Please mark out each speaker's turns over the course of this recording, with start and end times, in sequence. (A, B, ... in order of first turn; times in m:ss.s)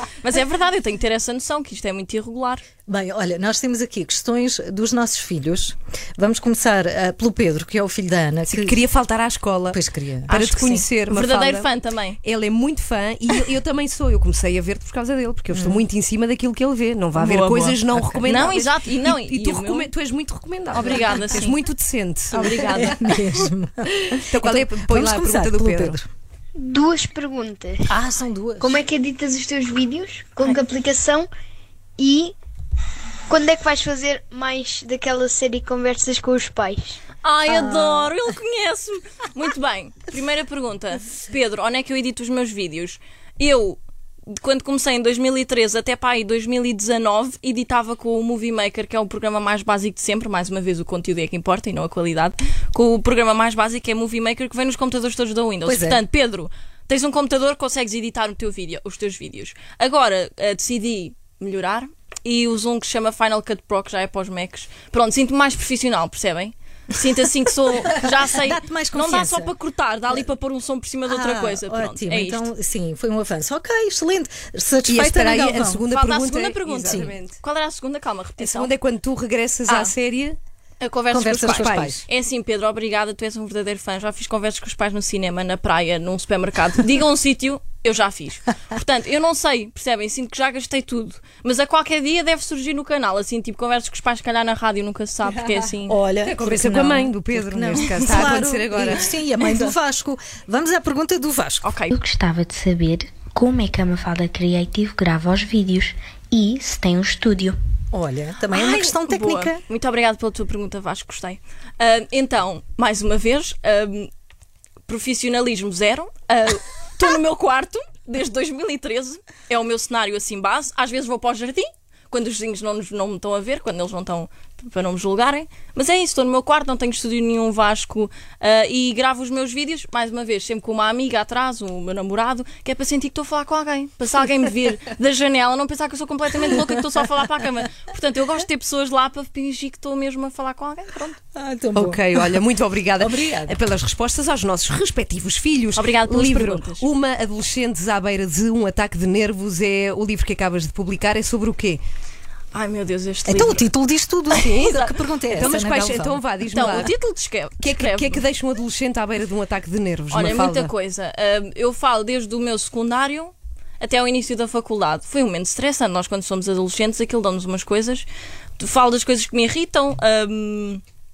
0:00.2-0:02.6 A
0:02.9-0:08.8 B
0:08.5-0:09.8 C
0:09.7-0:10.4 B
0:10.3-0:11.7 C
0:10.3-0:12.2 A
0:12.2-0:23.5 C
0:15.6-0:15.8 B
0:17.2-0:19.9 A
0:18.0-0:18.4 B
0:20.7-0:21.7 A
0:22.3-0:23.2 A
0:22.6-0:26.1 B
0:24.2-0:26.0 C
0:26.6-0:27.9 D
0:27.9-0:28.8 B
0:28.6-0:31.3 D
0:32.0-0:32.3 D
0:33.3-0:37.0 D
0:37.2-0:43.8 A
0:37.5-0:38.1 D
0:44.3-1:12.5 A
0:55.7-0:56.0 B
1:08.0-1:09.5 B
1:11.1-1:15.8 B
1:14.9-1:17.4 C
1:15.8-1:18.7 A
1:16.8-1:17.1 B
1:18.4-1:20.4 C
1:20.8-1:36.0 A
1:21.1-1:22.0 B
1:21.4-1:22.0 C
1:35.3-1:41.7 B
1:36.2-1:39.1 C
1:41.6-1:41.9 A
1:41.9-1:47.6 E
1:47.9-1:49.6 B
1:48.5-1:54.1 A
1:54.9-2:21.2 A
2:21.4-2:22.4 B
2:21.8-2:31.8 C
2:23.0-2:23.6 B
2:25.8-2:26.9 A
2:32.5-2:33.7 A
2:33.2-2:36.8 B
2:34.3-2:35.6 A
2:35.3-2:36.9 C
2:36.5-2:38.2 A
2:37.6-2:40.7 C
2:40.1-2:48.1 A
2:48.6-2:50.8 A